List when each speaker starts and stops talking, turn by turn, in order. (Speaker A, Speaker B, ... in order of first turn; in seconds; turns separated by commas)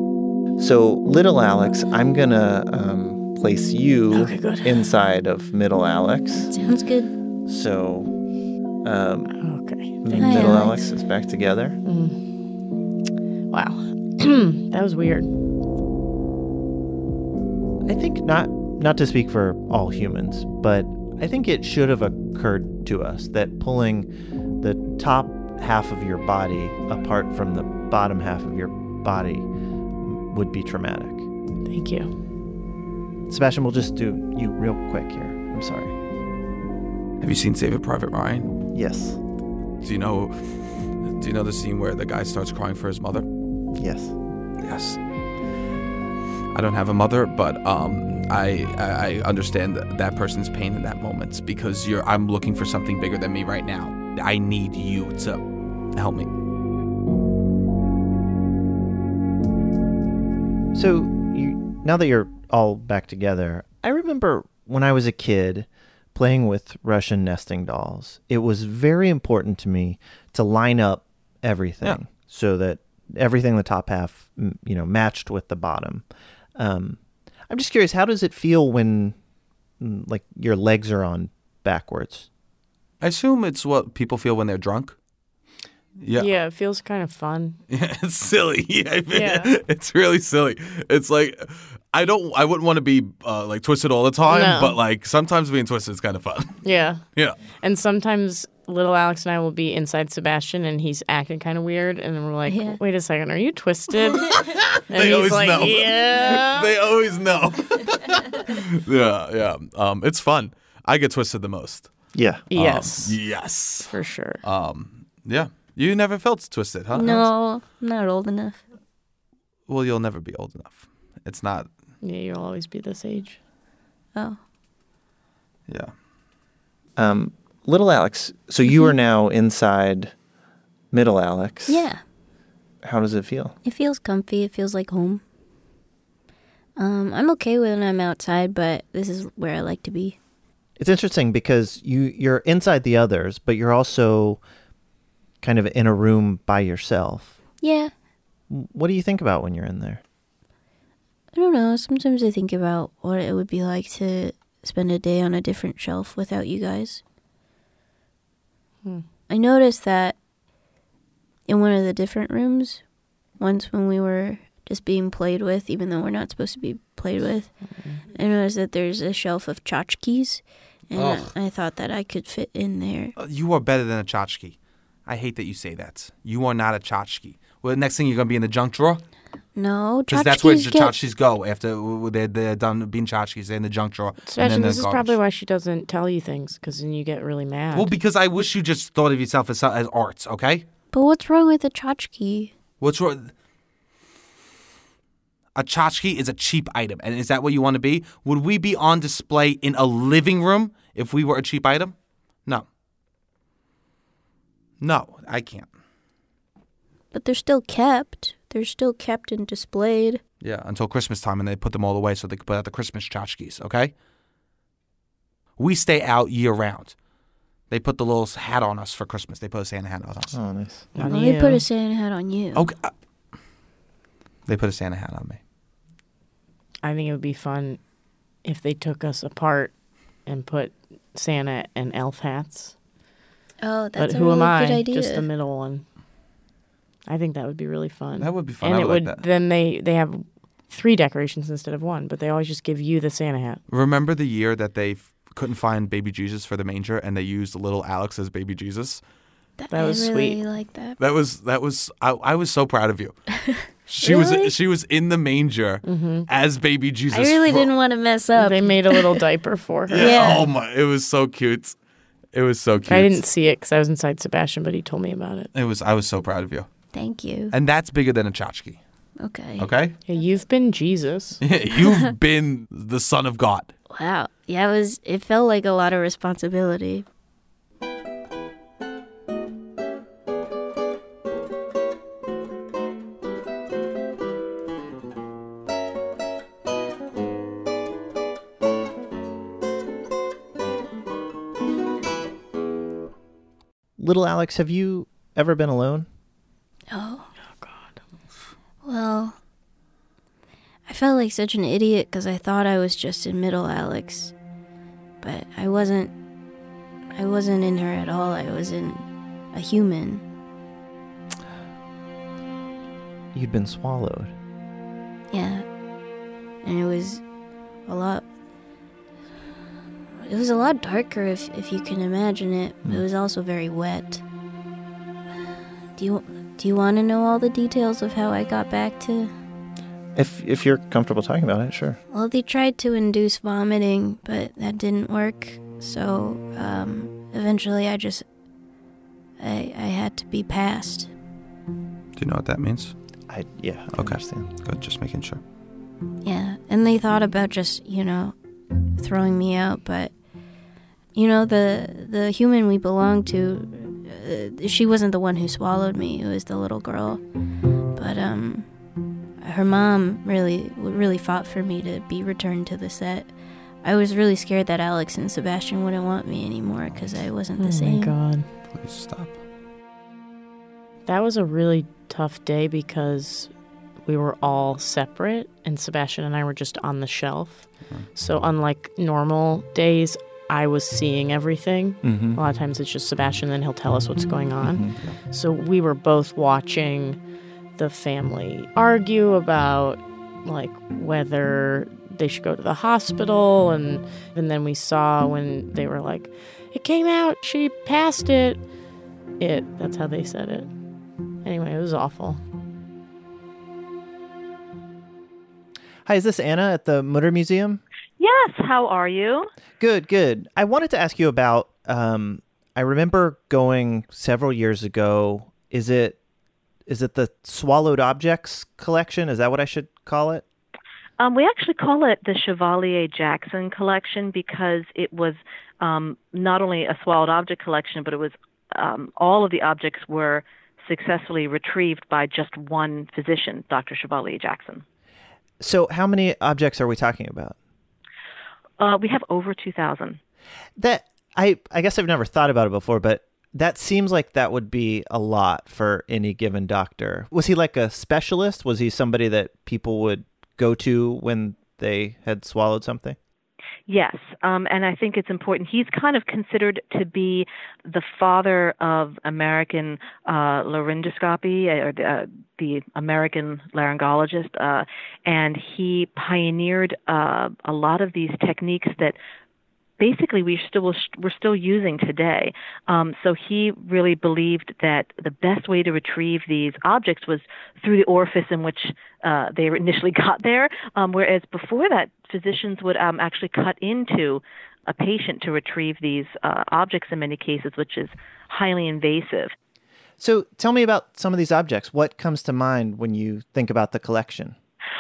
Speaker A: 0.6-6.5, Speaker B: 4.1-4.9, Speaker C: 6.5-7.1, Speaker A: 7.5-8.1, Speaker A: 8.8-9.3, Speaker B: 9.4-10.3, Speaker A: 10.0-11.8, Speaker C: 10.2-10.9, Speaker B: 11.8-12.2, Speaker B: 13.5-15.3, Speaker A: 17.9-29.5, Speaker A: 30.0-31.3, Speaker B: 31.7-32.1, Speaker A: 33.3-36.0, Speaker D: 37.2-38.5, Speaker A: 38.7-39.2, Speaker D: 39.8-43.3, Speaker A: 43.8-44.1, Speaker D: 44.6-45.0, Speaker D: 46.5-55.4, Speaker D: 56.0-56.3, Speaker A: 60.7-76.0, Speaker A: 76.6-79.2, Speaker A: 79.8-82.3, Speaker D: 83.0-85.0, Speaker D: 86.0-86.3, Speaker B: 86.2-87.6, Speaker D: 87.7-96.6, Speaker B: 89.1-89.5, Speaker B: 94.3-94.8, Speaker B: 96.6-97.0, Speaker B: 97.6-106.7, Speaker C: 102.5-102.8, Speaker D: 104.3-111.9, Speaker A: 112.1-112.5, Speaker B: 112.5-113.2, Speaker D: 112.5-117.3, Speaker B: 113.9-114.4, Speaker C: 116.9-118.6, Speaker D: 119.7-121.7, Speaker B: 122.0-123.4, Speaker C: 124.1-124.4, Speaker D: 125.7-125.9, Speaker A: 127.0-130.1, Speaker A: 130.9-131.8, Speaker C: 131.7-132.0, Speaker A: 132.8-133.6, Speaker C: 133.6-135.2, Speaker C: 136.8-140.2, Speaker A: 140.8-144.4, Speaker A: 145.4-147.4, Speaker C: 147.6-147.9, Speaker A: 148.5-150.0, Speaker C: 151.3-157.0, Speaker C: 159.3-160.2, Speaker C: 161.5-162.8, Speaker C: 163.4-167.5, Speaker B: 167.7-168.0, Speaker C: 168.1-173.1, Speaker D: 170.9-171.3, Speaker D: 173.2-179.0, Speaker C: 179.6-181.0, Speaker D: 180.1-185.2, Speaker B: 184.2-187.9, Speaker D: 187.7-190.7, Speaker C: 190.9-192.5, Speaker D: 192.8-193.3, Speaker D: 195.6-201.9, Speaker D: 204.8-205.7, Speaker C: 207.1-210.2, Speaker D: 210.4-213.9, Speaker D: 215.6-216.9, Speaker D: 217.7-220.3, Speaker A: 220.3-220.9, Speaker B: 220.9-221.6, Speaker C: 221.1-222.7, Speaker D: 222.6-222.9, Speaker D: 224.5-225.4, Speaker B: 226.8-227.8, Speaker B: 228.4-229.7, Speaker B: 230.2-232.8, Speaker C: 233.6-235.3, Speaker B: 234.0-235.8, Speaker B: 237.1-243.6, Speaker D: 238.2-239.2, Speaker D: 243.7-249.0, Speaker C: 249.6-251.0, Speaker B: 249.7-250.4, Speaker D: 251.0-253.2, Speaker C: 253.3-254.6, Speaker D: 253.9-257.7, Speaker B: 255.8-256.3, Speaker C: 257.1-259.2, Speaker B: 258.4-260.4, Speaker D: 259.9-261.8, Speaker C: 259.9-260.5, Speaker D: 262.3-263.2, Speaker B: 262.9-265.5, Speaker D: 265.5-266.7, Speaker C: 266.9-267.5, Speaker D: 267.5-268.8, Speaker C: 269.2-269.7, Speaker D: 269.6-269.9, Speaker B: 270.1-271.4, Speaker D: 271.4-273.7, Speaker C: 273.9-277.1, Speaker A: 294.0-296.1, Speaker C: 296.9-297.3, Speaker B: 297.5-298.0, Speaker C: 298.8-299.4, Speaker C: 300.9-304.3, Speaker C: 305.2-306.1, Speaker C: 307.1-310.2, Speaker A: 313.3-314.3, Speaker C: 315.3-315.6, Speaker C: 316.6-317.2, Speaker C: 317.9-318.2, Speaker C: 320.2-324.2, Speaker C: 326.0-329.3, Speaker A: 330.1-332.0, Speaker C: 332.1-338.2, Speaker C: 339.4-341.1, Speaker D: 342.1-342.9, Speaker A: 343.3-344.5, Speaker D: 343.9-345.4, Speaker C: 346.2-348.4, Speaker C: 349.0-350.1, Speaker C: 351.1-357.2, Speaker C: 357.9-358.7, Speaker C: 359.4-363.3, Speaker C: 363.8-368.1, Speaker B: 367.6-368.5, Speaker D: 368.7-369.4, Speaker B: 371.1-373.5, Speaker B: 374.1-387.2, Speaker A: 382.0-382.4, Speaker A: 384.6-384.9, Speaker B: 387.8-398.6, Speaker B: 399.4-400.7, Speaker B: 401.4-402.4, Speaker A: 406.1-407.8, Speaker E: 408.2-409.5, Speaker A: 409.8-416.2, Speaker A: 416.9-420.4, Speaker E: 421.2-434.8, Speaker A: 435.6-437.6, Speaker E: 438.8-440.2, Speaker A: 440.8-453.2, Speaker E: 453.9-469.1, Speaker E: 470.0-489.5, Speaker A: 490.2-494.6